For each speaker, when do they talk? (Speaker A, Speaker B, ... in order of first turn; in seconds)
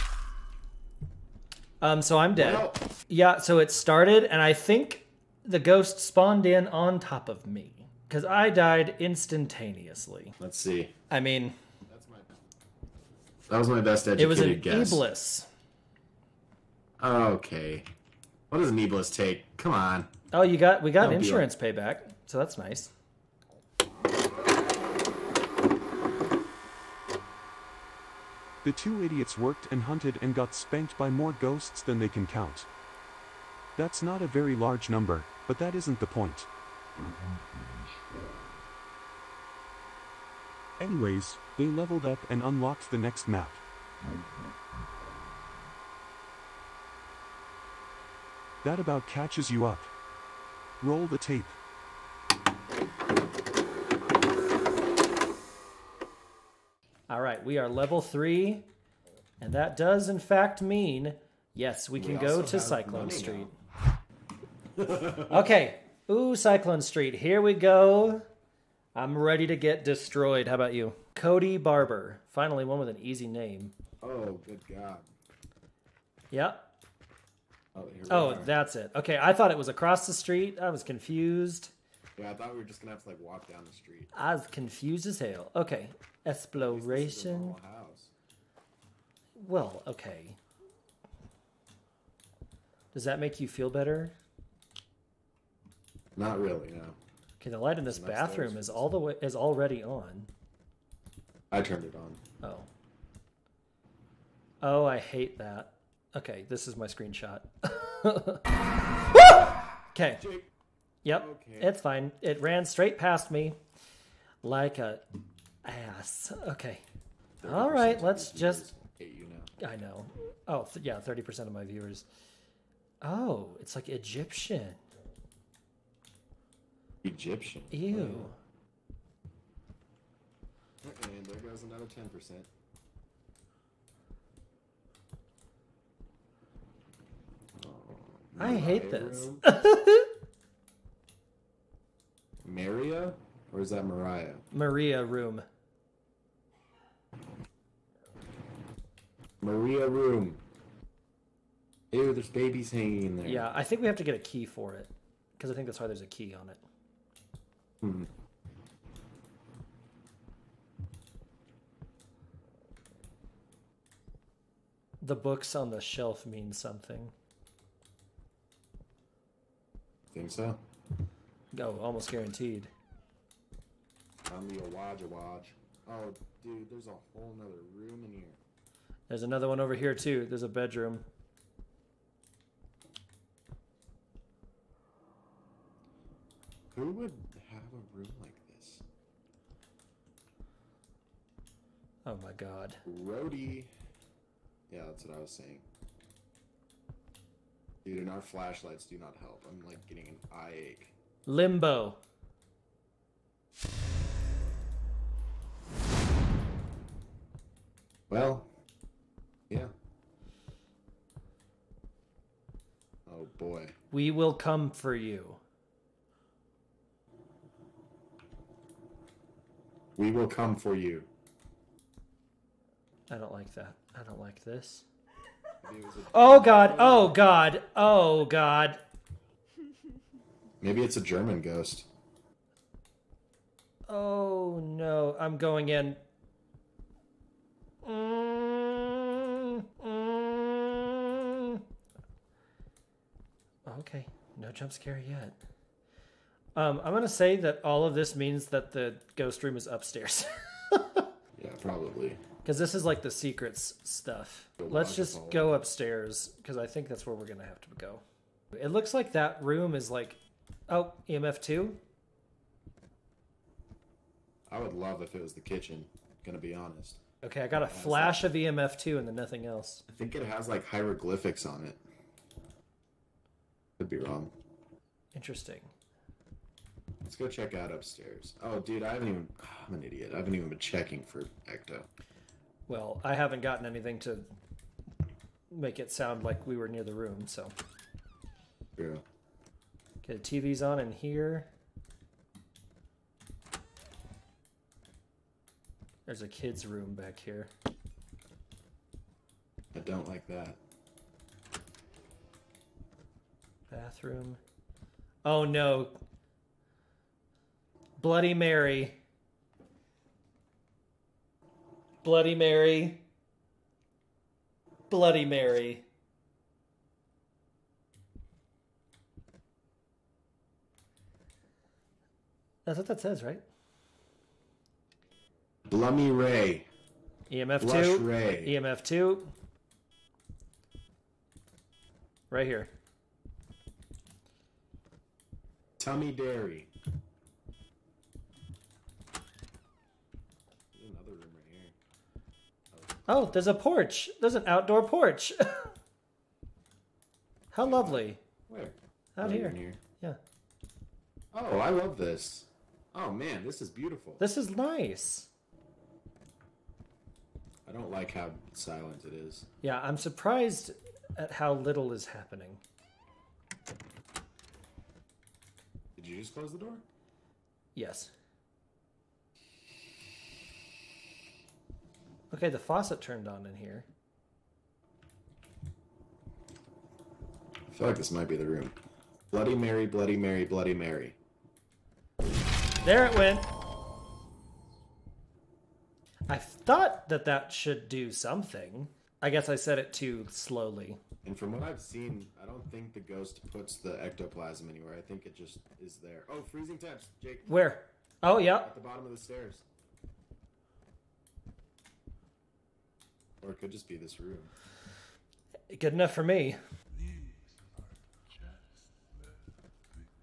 Speaker A: 1.8-10.3, 11.1-11.5, 14.2-15.5, 20.3-22.9, 57.1-58.7, 59.4-63.5, 65.3-68.2, 68.9-73.7, 76.3-76.7, 78.1-81.7, 84.1-87.6, 89.3-90.4, 92.9-94.1, 97.4-100.3, 102.4-102.7, 104.6-108.4, 109.1-110.2, 111.0-113.6, 114.4-115.0, 115.6-116.8, 117.4-118.7, 119.6-122.0, 123.0-124.8, 127.7-128.3, 138.4-140.1, 144.5-145.4, 153.2-156.6, 165.0-167.1, 171.5-172.7, 179.1-181.0, 192.0-192.8, 201.2-202.0, 213.9-215.4, 223.1-224.8, 226.1-228.8, 233.9-236.0, 237.8-241.6, 243.7-245.4, 246.5-251.1, 252.4-258.0, 258.5-261.8, 267.2-269.8, 275.1-275.7, 282.7-284.2, 285.5-287.5, 290.0-291.5, 296.1-297.5, 303.7-304.4, 305.2-306.0, 308.0-308.9, 312.0-313.0, 314.9-315.8, 322.6-323.4, 327.3-329.3, 332.3-332.7, 343.1-345.7, 347.5-348.2, 349.1-350.2, 354.2-355.3, 359.6-362.6, 367.7-368.1, 372.3-373.9, 382.8-383.5, 386.3-391.0, 397.5-398.7, 405.7-406.6
Speaker B: 2.4-2.8, 10.4-10.9, 11.8-12.5, 13.4-15.0, 17.0-17.9, 18.5-20.1, 21.0-21.5, 62.0-63.5, 64.8-65.5, 74.0-75.0, 77.7-78.5, 82.2-84.1, 86.5-88.1, 96.2-97.0, 97.8-98.9, 101.5-102.2, 110.2-110.5, 111.1-111.7, 117.4-119.5, 127.0-128.3, 130.8-132.5, 137.5-139.4, 142.4-144.4, 149.4-150.4, 151.9-153.5, 157.8-158.1, 170.1-170.6, 174.3-178.4, 186.7-188.8, 192.8-193.7, 194.7-195.6, 197.8-200.9, 208.1-208.5, 213.1-213.7, 219.9-221.1, 225.6-227.2, 230.6-231.9, 251.3-252.2, 254.6-255.6, 264.5-267.0, 267.5-268.3, 269.9-271.8, 273.8-274.3, 277.0-281.9, 288.8-289.0, 299.7-300.6, 325.7-326.7, 327.6-328.5, 335.8-336.7, 340.7-341.7, 342.7-343.5, 347.6-349.8, 351.3-354.2, 357.6-359.5, 365.9-366.8, 377.7-378.7, 379.3-381.1, 391.2-397.6, 398.6-399.6, 403.4-404.5
Speaker C: 28.6-32.7, 33.8-36.5, 40.8-43.6, 48.6-49.9, 50.8-51.6